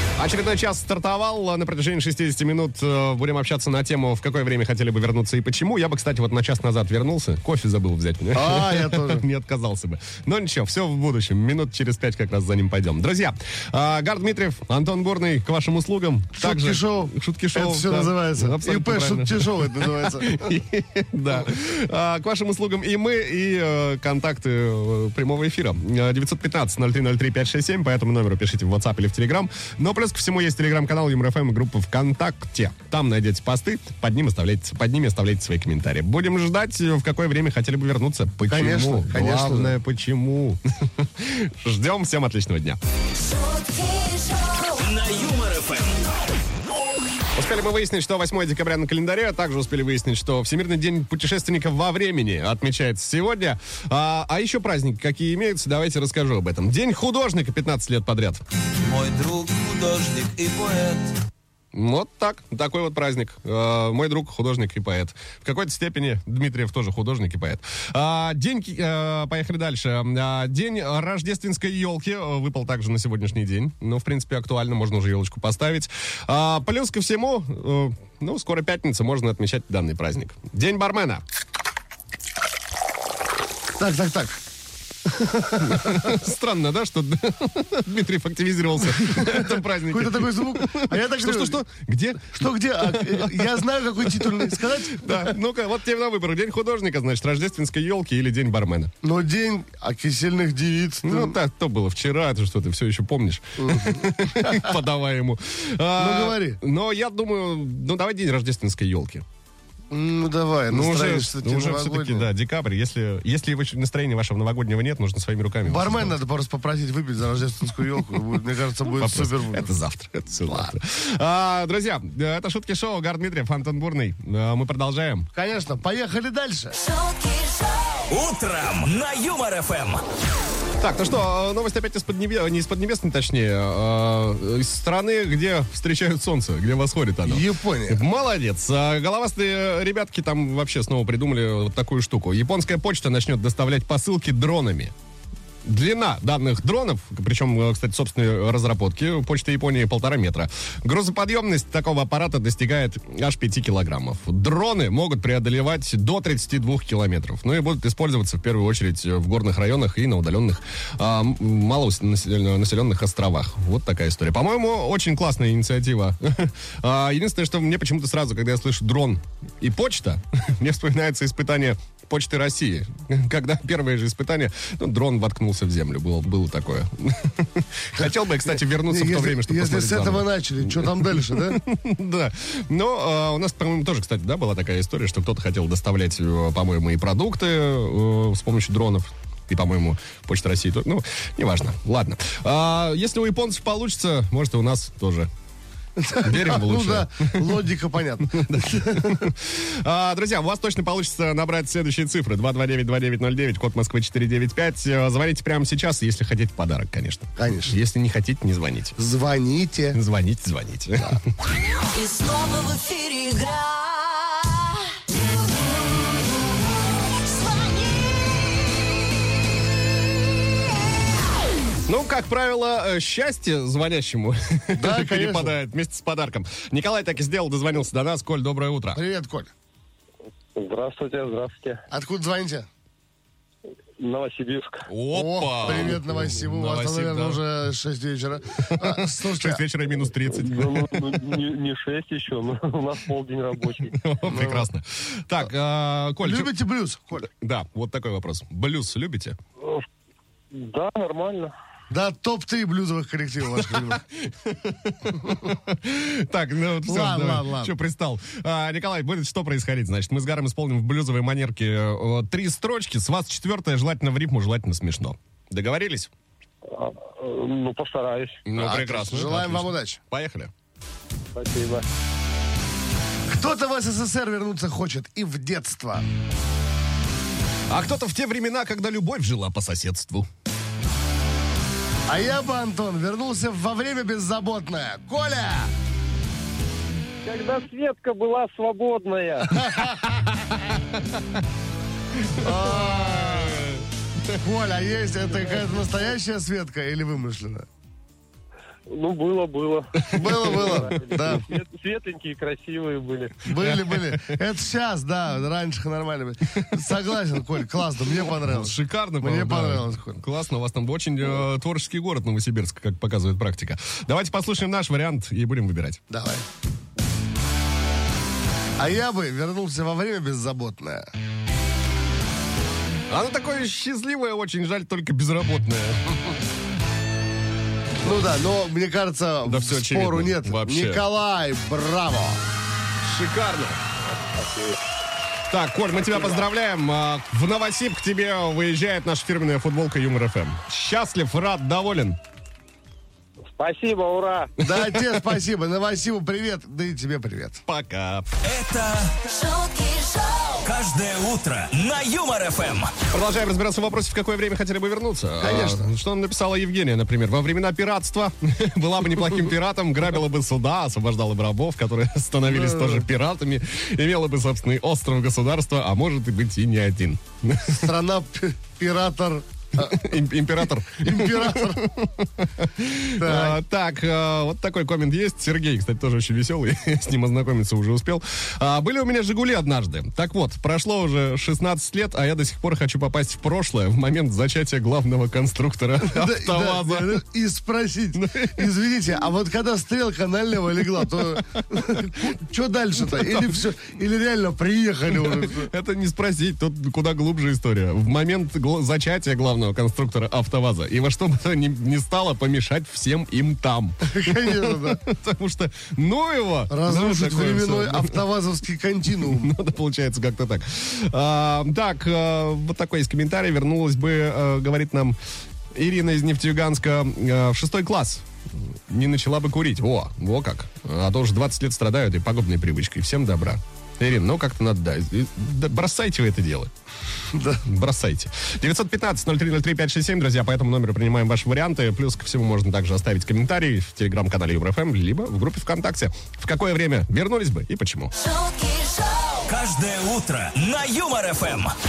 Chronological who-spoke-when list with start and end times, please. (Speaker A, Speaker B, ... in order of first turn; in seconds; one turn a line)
Speaker A: 0.2-42.8
Speaker B: 8.3-9.2
Speaker B: 16.4-20.5
Speaker B: 38.5-39.8
Speaker C: 43.2-44.8
Speaker D: 44.8-46.1
Speaker A: 47.4-58.4
Speaker E: 58.9-61.1
Speaker A: 61.7-81.2
Speaker B: 83.8-84.4
Speaker B: 85.1-86.2
Speaker A: 85.5-98.9
Speaker B: 88.9-91.6
Speaker B: 92.3-95.3
Speaker B: 99.0-101.4
Speaker A: 101.0-109.2
Speaker B: 103.6-104.7
Speaker B: 106.0-106.6
Speaker B: 109.9-112.3
Speaker A: 110.7-116.2
Speaker B: 115.7-119.7
Speaker A: 118.9-125.3
Speaker B: 120.4-120.7
Speaker B: 125.3-126.8
Speaker C: 126.8-128.1
Speaker D: 128.1-130.0
Speaker A: 130.8-144.9
Speaker B: 137.2-138.0
Speaker A: 145.7-195.3
Speaker B: 178.0-181.6
Speaker B: 196.0-199.3
Speaker A: 196.2-197.5
Speaker A: 198.3-209.0
Speaker B: 207.4-207.8
Speaker B: 209.0-210.0
Speaker A: 209.9-211.2
Speaker C: 211.9-214.8
Speaker C: 217.3-218.1
Speaker A: 221.9-229.0
Speaker B: 224.7-225.6
Speaker B: 228.9-229.5
Speaker F: 230.6-231.8
Speaker B: 231.9-232.7
Speaker F: 234.0-234.9
Speaker A: 234.9-237.4
Speaker B: 235.1-239.6
Speaker A: 238.7-241.0
Speaker F: 240.3-243.9
Speaker A: 243.9-246.5
Speaker B: 244.3-244.7
Speaker B: 246.2-247.3
Speaker A: 247.3-249.4
Speaker F: 249.6-249.9
Speaker F: 250.5-251.5
Speaker B: 251.9-254.0
Speaker A: 253.7-266.1
Speaker B: 256.8-257.7
Speaker F: 266.7-268.4
Speaker A: 268.5-270.5
Speaker B: 268.5-270.0
Speaker F: 271.3-271.9
Speaker B: 273.3-276.1
Speaker A: 277.7-280.3
Speaker B: 282.1-285.7
Speaker F: 287.2-289.6
Speaker B: 289.6-290.1
Speaker A: 292.2-294.4
Speaker B: 292.4-293.7
Speaker B: 294.4-297.7
Speaker F: 298.9-303.4
Speaker A: 300.0-301.4
Speaker B: 300.1-301.5
Speaker B: 303.4-310.2
Speaker A: 303.5-304.4
Speaker A: 308.4-316.0
Speaker B: 316.1-316.4
Speaker B: 318.8-321.1
Speaker A: 323.1-326.3
Speaker B: 328.0-332.4
Speaker A: 329.4-331.1
Speaker A: 333.0-333.8
Speaker F: 334.2-334.8
Speaker A: 335.5-342.2
Speaker F: 343.5-344.5
Speaker B: 344.6-347.6
Speaker A: 344.6-345.1
Speaker A: 347.7-348.3
Speaker D: 348.4-349.2
Speaker C: 349.2-350.6
Speaker D: 350.6-352.9
Speaker A: 353.1-367.9
Speaker B: 355.4-355.9
Speaker B: 362.5-363.1
Speaker B: 367.6-370.1
Speaker A: 369.8-387.2
Speaker B: 370.8-371.9
Speaker B: 373.2-373.6
Speaker B: 386.0-395.7
Speaker A: 388.1-388.7
Speaker A: 393.1-393.6
Speaker A: 395.1-408.2
Speaker B: 404.1-405.0
Speaker B: 406.7-409.5
Speaker A: 409.2-415.2
Speaker A: 415.7-426.7
Speaker B: 427.3-427.6
Speaker A: 427.6-438.1
Speaker C: 438.2-439.4
Speaker D: 439.5-441.8